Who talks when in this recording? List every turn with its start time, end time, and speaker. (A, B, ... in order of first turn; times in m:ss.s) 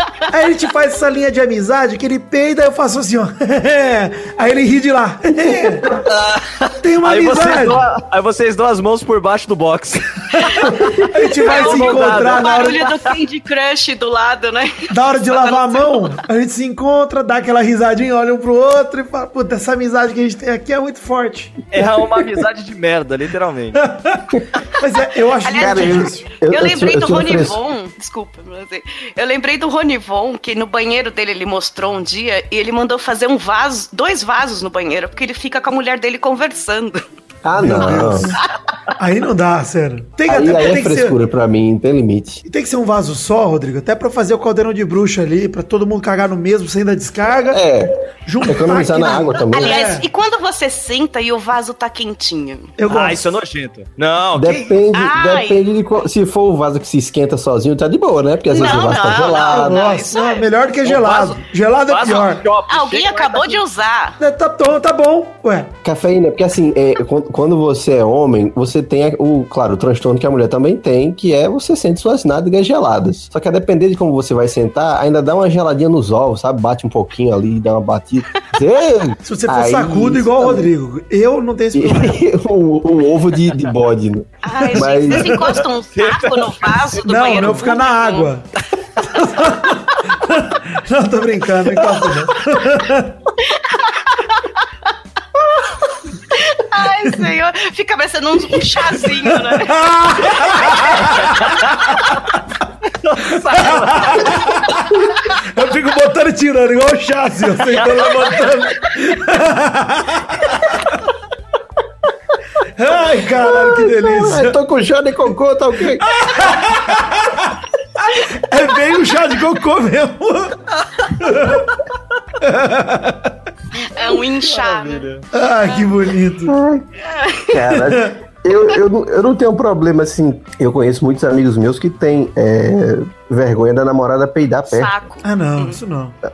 0:00.3-0:05.9 A
0:05.4-0:06.0 B
0:05.9-0:12.9 C
0:06.8-0:07.9 A
0:10.3-0:12.9 A
0:11.4-0:16.2 D
0:14.9-0:21.6 A
0:21.7-0:23.8 C
0:23.8-0:26.3 A
0:25.4-0:37.0 D
0:25.6-0:27.6 B
0:37.4-0:38.3 B
0:37.6-0:38.4 A
0:39.0-0:41.2 A
0:40.3-0:42.4 B
0:42.4-0:47.6 A
0:47.5-0:49.8 B
0:48.3-0:50.0 A
0:49.5-0:52.7 D
0:52.8-0:53.3 A
0:52.9-0:54.7 C
0:54.4-0:59.8 B
0:54.9-0:55.6 D
0:58.5-1:00.5 D
0:58.5-0:58.8 A
0:59.5-1:02.4 A
1:00.8-1:03.6 C
1:02.7-1:04.2 D
1:04.2-1:05.7 A
1:05.8-1:20.7 B
1:19.2-1:22.2 A
1:21.7-1:25.4 B
1:24.4-1:28.3 D
1:24.6-1:25.6 A
1:26.0-1:26.8 C
1:27.0-1:28.4 A
1:29.0-1:33.2 A
1:33.4-1:34.5 D
1:36.3-1:41.1 D
1:38.9-1:42.2 A
1:41.2-1:41.9 C
1:43.0-1:44.7 C
1:43.3-1:51.0 A
1:47.7-1:48.5 C
1:52.8-1:54.6 A
1:53.3-1:56.2 B
1:56.0-2:01.7 A
2:02.4-2:03.4 A
2:03.8-2:05.1 D
2:04.5-2:05.2 C
2:05.3-2:06.6 A
2:06.5-2:06.9 B
2:07.0-2:07.5 D
2:07.4-2:15.0 B
2:07.6-2:08.2 A
2:14.7-2:15.8 D
2:15.2-2:16.2 A